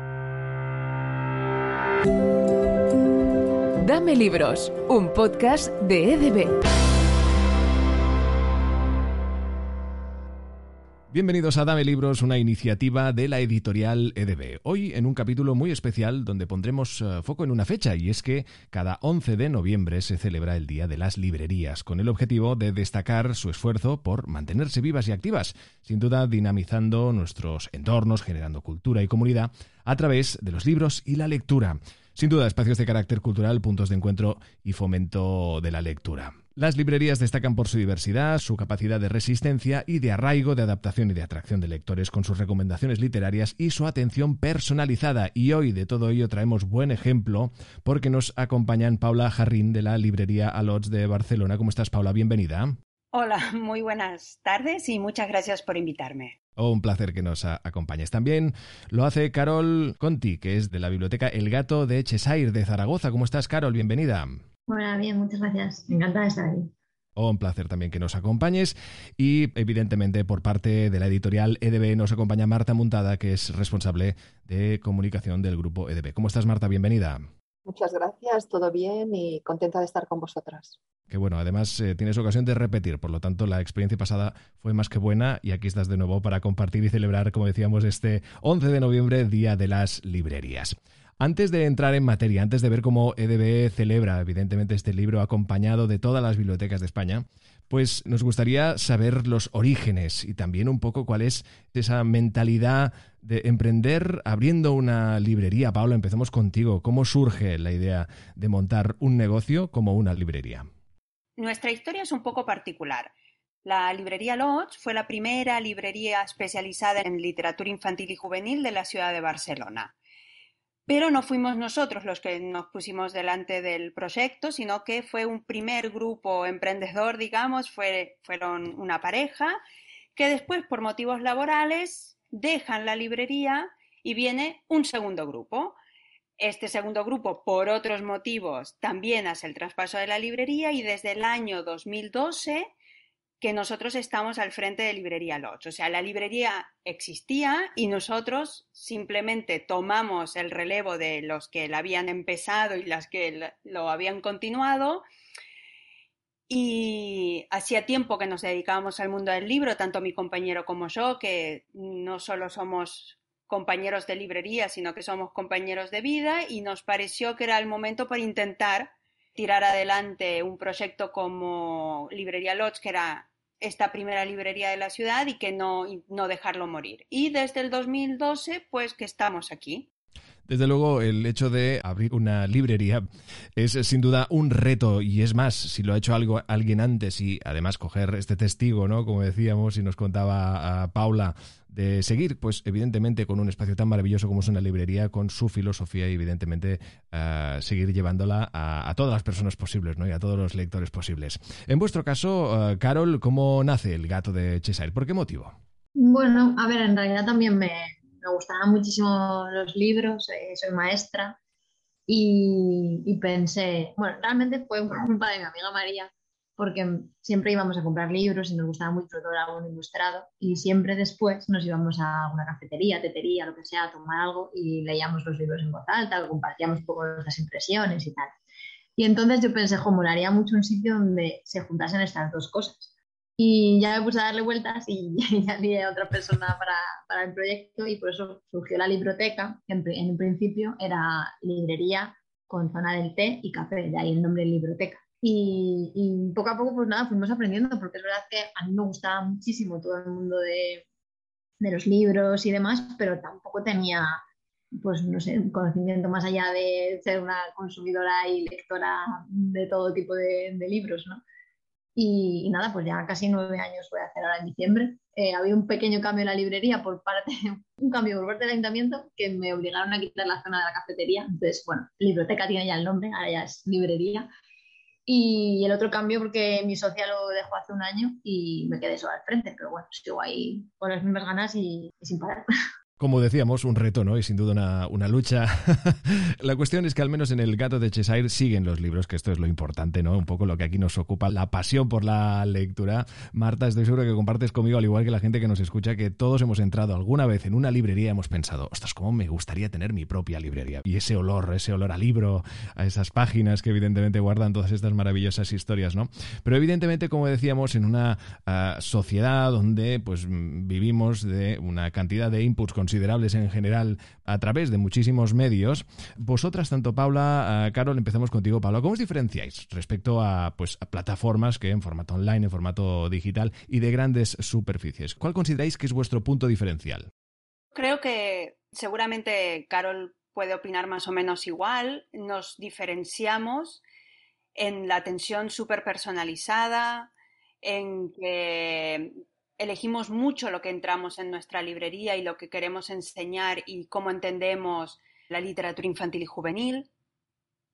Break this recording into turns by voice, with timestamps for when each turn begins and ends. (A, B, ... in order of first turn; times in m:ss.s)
0:03.8-0:06.6 A
0:11.1-0:52.8 B
0:53.1-0:56.4 C
0:56.6-1:04.4 B
1:04.7-1:06.7 D
1:07.2-1:17.2 B
1:17.7-1:20.8 E
1:21.1-1:50.7 B
1:51.4-1:53.1 C
1:53.6-1:59.9 C
2:00.9-2:09.6 C
2:10.2-2:15.8 C
2:16.4-2:22.7 C
2:23.4-2:35.0 C
2:36.5-2:59.9 C
3:00.5-3:03.0 B
3:03.6-3:25.6 B
3:26.0-3:31.4 D
3:32.1-3:48.3 D
3:49.0-4:10.8 D
4:11.6-4:14.2 D
4:14.8-4:21.2 D
4:22.0-4:34.3 D
4:35.1-4:42.5 D
4:43.0-5:27.1 B
5:27.7-5:33.8 C
5:34.6-5:37.1 C
5:37.6-5:46.9 C